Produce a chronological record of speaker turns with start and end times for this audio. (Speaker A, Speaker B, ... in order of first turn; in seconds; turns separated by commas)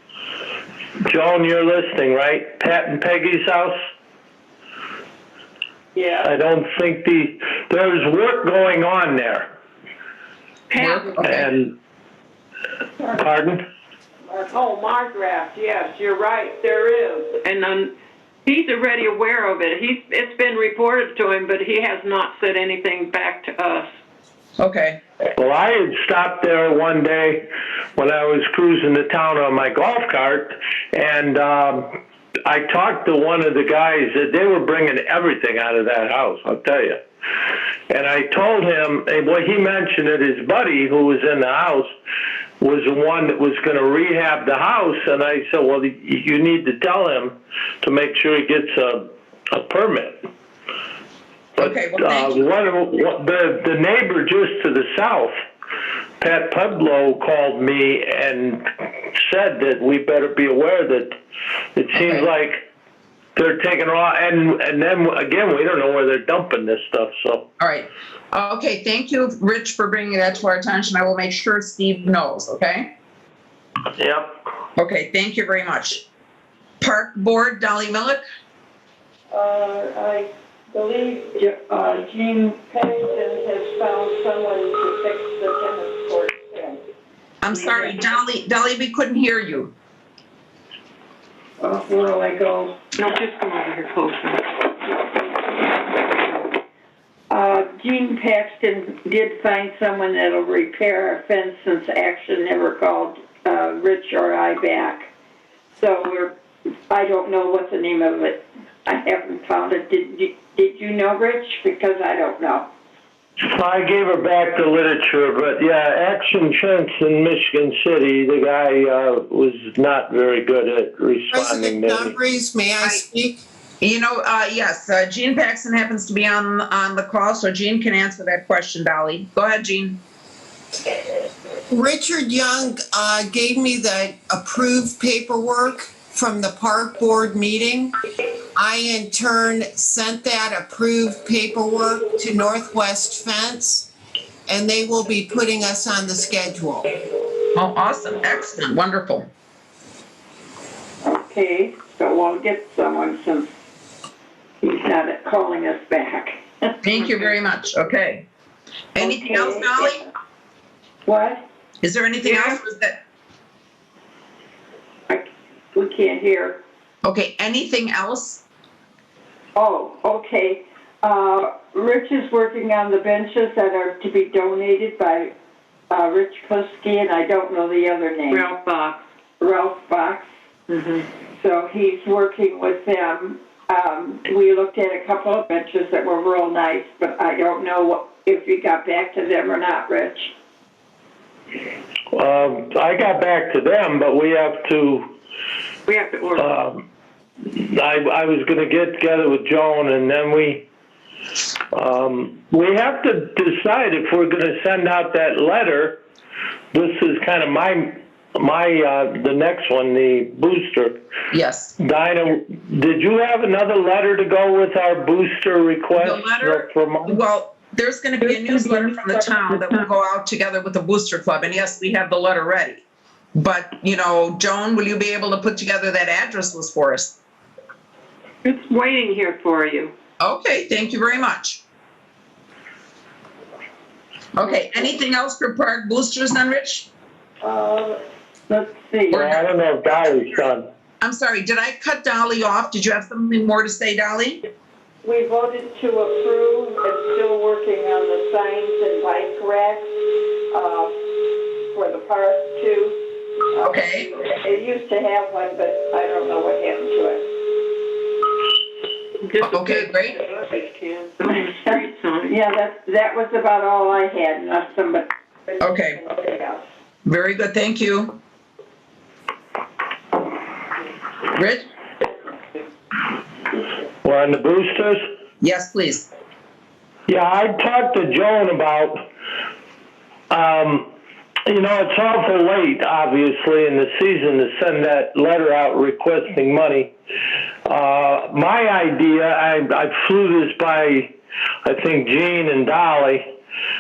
Speaker A: 1.1-3.7, Speaker B: 5.9-6.3, Speaker A: 6.2-9.5, Speaker B: 10.7-11.2, Speaker C: 10.8-11.4, Speaker A: 11.2-11.7, Speaker A: 13.1-13.6, Speaker B: 14.3-17.9, Speaker B: 18.4-23.9, Speaker C: 24.6-25.0, Speaker A: 25.4-31.9, Speaker A: 32.4-37.0, Speaker A: 37.9-41.9, Speaker A: 42.6-50.2, Speaker A: 51.6-55.3, Speaker C: 51.6-52.4, Speaker A: 56.2-61.1, Speaker A: 61.8-62.6, Speaker C: 61.9-62.3, Speaker A: 63.4-67.4, Speaker C: 67.6-72.9, Speaker A: 73.9-74.3, Speaker C: 74.8-76.0, Speaker C: 76.8-78.2, Speaker D: 79.3-86.8, Speaker C: 87.4-89.7, Speaker D: 91.6-92.8, Speaker B: 93.0-94.7, Speaker B: 95.8-96.5, Speaker D: 97.3-105.1, Speaker D: 105.8-106.3, Speaker D: 106.9-112.7, Speaker A: 113.4-122.2, Speaker E: 121.3-123.4, Speaker C: 123.8-130.0, Speaker E: 131.7-137.9, Speaker E: 138.5-143.9, Speaker E: 144.5-147.0, Speaker C: 147.5-149.3, Speaker D: 151.0-153.5, Speaker D: 154.6-157.2, Speaker C: 156.8-158.3, Speaker C: 158.9-160.0, Speaker D: 159.0-160.1, Speaker D: 161.1-161.4, Speaker C: 161.8-163.0, Speaker D: 165.1-166.6, Speaker C: 167.0-168.4, Speaker D: 169.5-175.3, Speaker D: 175.9-178.5, Speaker B: 178.3-179.0, Speaker D: 179.4-180.3, Speaker B: 180.7-181.1, Speaker D: 181.3-190.3, Speaker A: 192.1-195.1, Speaker B: 195.9-196.5, Speaker A: 196.4-196.8, Speaker A: 197.4-200.6, Speaker A: 201.7-206.0, Speaker A: 206.7-210.9, Speaker C: 211.3-211.7, Speaker A: 211.8-217.2, Speaker C: 215.9-222.8, Speaker C: 223.3-227.2, Speaker B: 228.4-229.9, Speaker C: 230.2-231.6, Speaker C: 234.3-236.9, Speaker D: 237.4-238.0, Speaker D: 238.5-239.2, Speaker C: 239.1-239.4, Speaker A: 239.1-240.6, Speaker C: 241.0-244.4, Speaker D: 245.0-250.9, Speaker D: 251.7-253.0, Speaker D: 253.5-257.3, Speaker C: 253.6-254.1, Speaker B: 259.2-262.4, Speaker C: 259.4-260.2, Speaker D: 262.2-266.6, Speaker C: 265.6-266.0, Speaker C: 267.0-268.2, Speaker C: 271.3-271.7, Speaker A: 274.0-275.0, Speaker C: 275.4-276.1, Speaker A: 277.1-279.0, Speaker A: 280.3-280.9, Speaker A: 281.5-286.9, Speaker A: 287.6-291.1, Speaker A: 291.6-293.2